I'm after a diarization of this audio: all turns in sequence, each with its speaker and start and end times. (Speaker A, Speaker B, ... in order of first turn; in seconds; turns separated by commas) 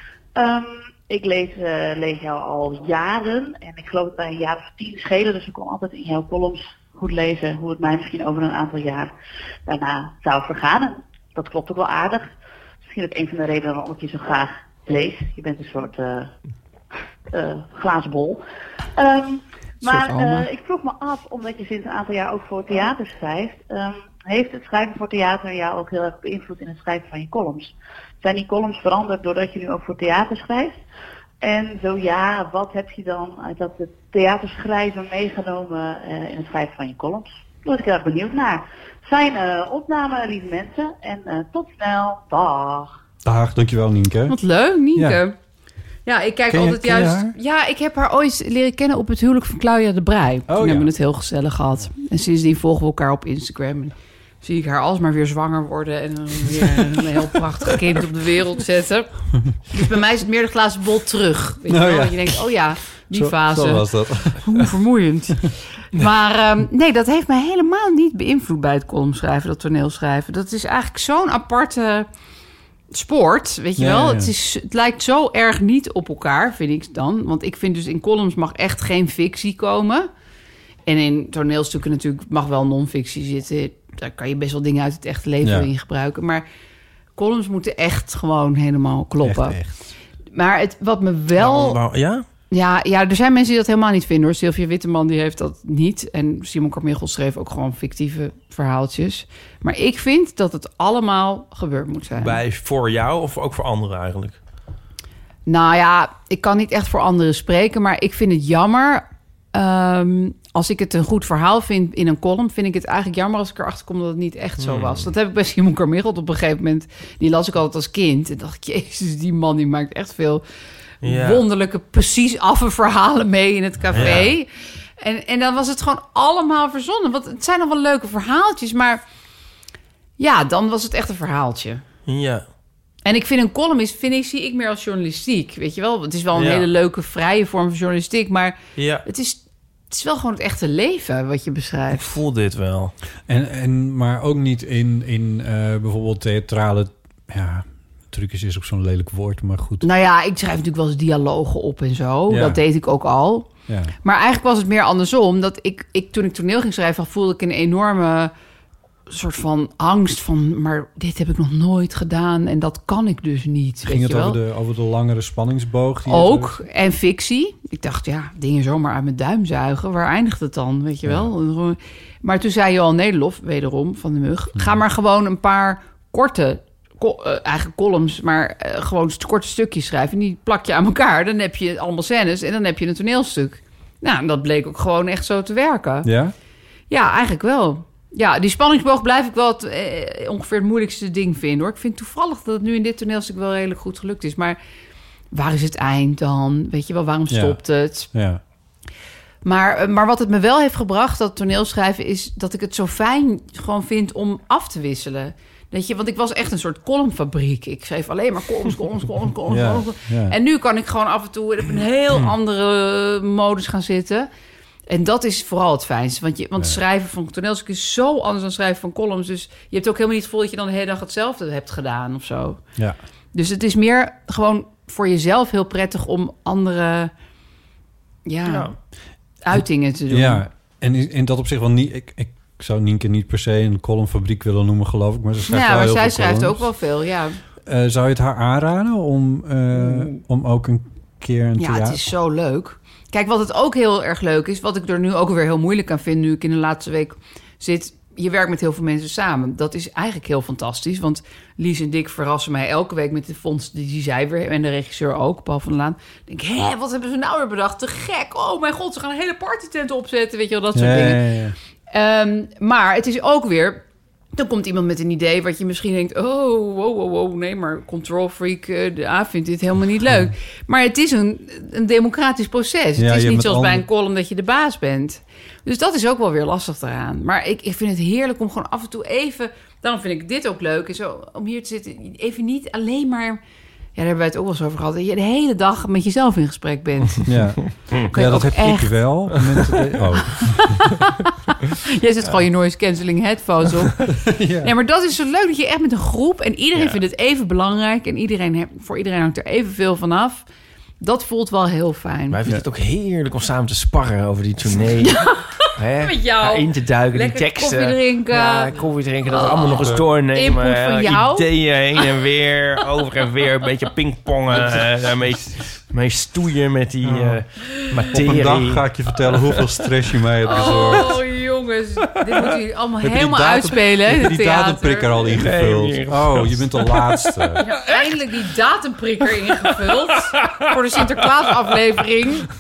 Speaker A: 0.3-9.1, Speaker A: 9.7-12.3, Speaker A: 12.9-16.3, Speaker A: 17.3-18.4, Speaker A: 19.0-30.8, Speaker B: 19.9-20.4, Speaker A: 31.4-42.9, Speaker C: 43.2-44.4, Speaker B: 44.3-45.4, Speaker C: 45.0-45.2, Speaker B: 46.1-59.1, Speaker C: 46.5-47.3, Speaker C: 50.5-50.9, Speaker B: 59.7-72.1, Speaker C: 61.7-62.5, Speaker C: 63.1-64.7, Speaker B: 72.9-80.1, Speaker C: 73.8-74.3, Speaker B: 80.9-86.4, Speaker C: 85.4-85.7, Speaker B: 87.2-89.6, Speaker C: 89.2-89.7, Speaker B: 90.3-91.8, Speaker D: 91.4-92.2, Speaker B: 92.5-102.4, Speaker D: 102.2-104.4, Speaker B: 105.5-120.4, Speaker D: 114.6-115.1, Speaker B: 121.0-124.5, Speaker D: 121.0-121.4, Speaker D: 123.9-124.3, Speaker B: 125.0-129.0, Speaker B: 130.2-131.8, Speaker D: 132.1-132.4, Speaker B: 133.1-142.2, Speaker D: 136.3-136.7, Speaker D: 138.8-139.1, Speaker D: 141.9-142.9, Speaker C: 143.3-149.9, Speaker B: 149.8-153.5, Speaker C: 152.3-152.6, Speaker C: 153.7-153.9, Speaker B: 154.0-158.3, Speaker B: 159.1-164.4, Speaker C: 163.8-166.6, Speaker B: 166.1-186.1, Speaker C: 171.1-171.3, Speaker C: 186.0-186.3, Speaker B: 186.9-194.6, Speaker B: 195.3-198.1, Speaker C: 197.3-198.4, Speaker B: 199.4-214.3, Speaker C: 209.5-210.4, Speaker B: 214.9-222.6, Speaker B: 223.3-227.1, Speaker B: 228.2-228.7, Speaker D: 228.5-228.8, Speaker B: 229.4-230.4, Speaker C: 230.1-236.7, Speaker B: 235.5-237.4, Speaker C: 237.7-242.0, Speaker B: 241.6-261.2, Speaker C: 260.8-261.6, Speaker B: 261.9-283.4, Speaker C: 273.0-273.9, Speaker B: 284.0-287.3, Speaker C: 287.2-290.9, Speaker B: 288.1-288.9, Speaker B: 290.3-291.3, Speaker B: 291.9-300.5, Speaker C: 294.2-294.7, Speaker B: 301.0-302.4, Speaker D: 302.3-319.6, Speaker B: 305.1-308.7, Speaker B: 309.3-311.5, Speaker C: 317.0-317.4, Speaker C: 318.1-321.2, Speaker B: 320.4-325.3, Speaker D: 320.6-321.1, Speaker C: 323.0-327.6, Speaker D: 325.3-328.1, Speaker B: 327.6-332.5, Speaker D: 329.6-330.7, Speaker D: 331.2-331.5